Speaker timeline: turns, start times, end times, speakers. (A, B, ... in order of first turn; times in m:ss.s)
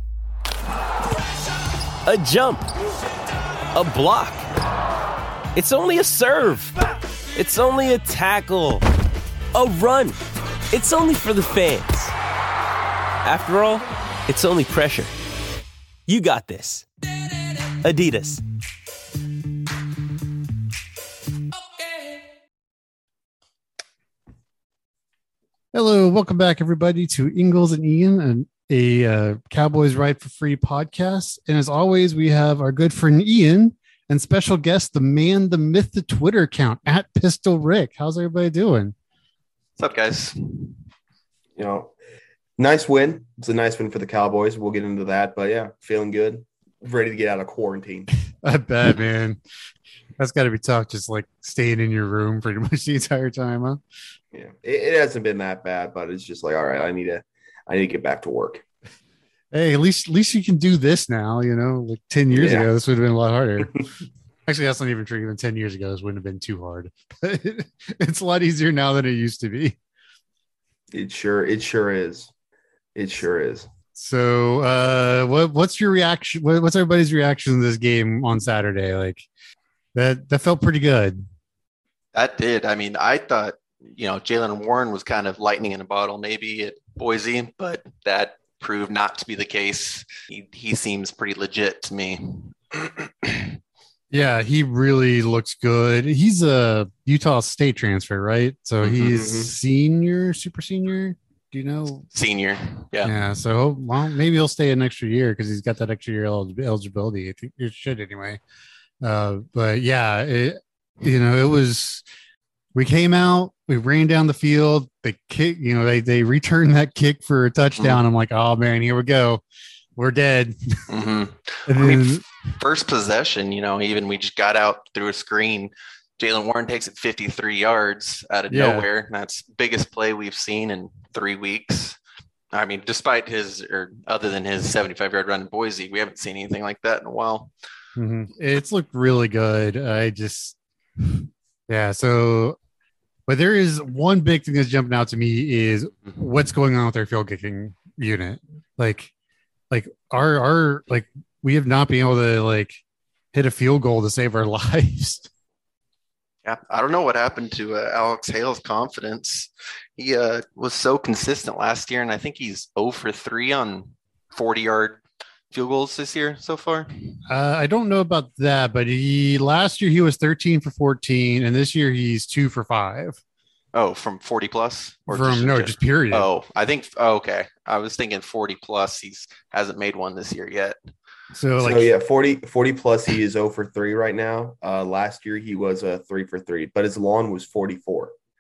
0:02.1-0:02.7 A
0:03.7-0:04.5 A
0:05.5-0:06.8 A
0:07.4-0:08.8 A
0:09.5-0:10.2 A
0:10.7-0:12.1 A
0:13.2-0:15.1 A
0:16.1-0:16.9 A
0:17.6-0:18.4 A
0:25.7-0:39.0 B
0:39.8-0:40.8 C
0:41.6-0:41.9 D
0:42.6-0:48.1 D
0:48.4-0:49.4 B
0:50.2-0:53.8 B
0:54.3-0:58.6 D
0:59.5-1:03.8 B
1:02.3-1:02.7 D
1:04.5-1:09.8 B
1:10.9-1:12.3 D
1:13.0-1:13.7 D
1:14.0-1:19.3 B
1:20.0-1:21.2 B
1:22.1-1:33.5 C
1:34.1-1:42.1 B
1:38.8-1:39.3 C
1:39.1-1:39.5 D
1:42.1-1:43.1 C
1:43.0-1:48.4 B
1:49.0-1:52.0 B
1:52.8-1:59.4 B
2:00.0-2:00.9 B
2:00.9-2:12.0 C
2:01.7-2:02.2 B
2:08.5-2:08.9 B
2:12.5-2:17.5 C
2:18.0-2:22.6 B
2:23.3-2:29.1 B
2:29.7-2:32.8 B
2:33.3-2:35.3 B
2:36.4-2:47.2 C
2:47.3-2:53.2 B
2:53.7-3:00.8 C
2:55.1-2:56.3 B
3:01.3-3:01.9 B
3:01.6-3:08.2 D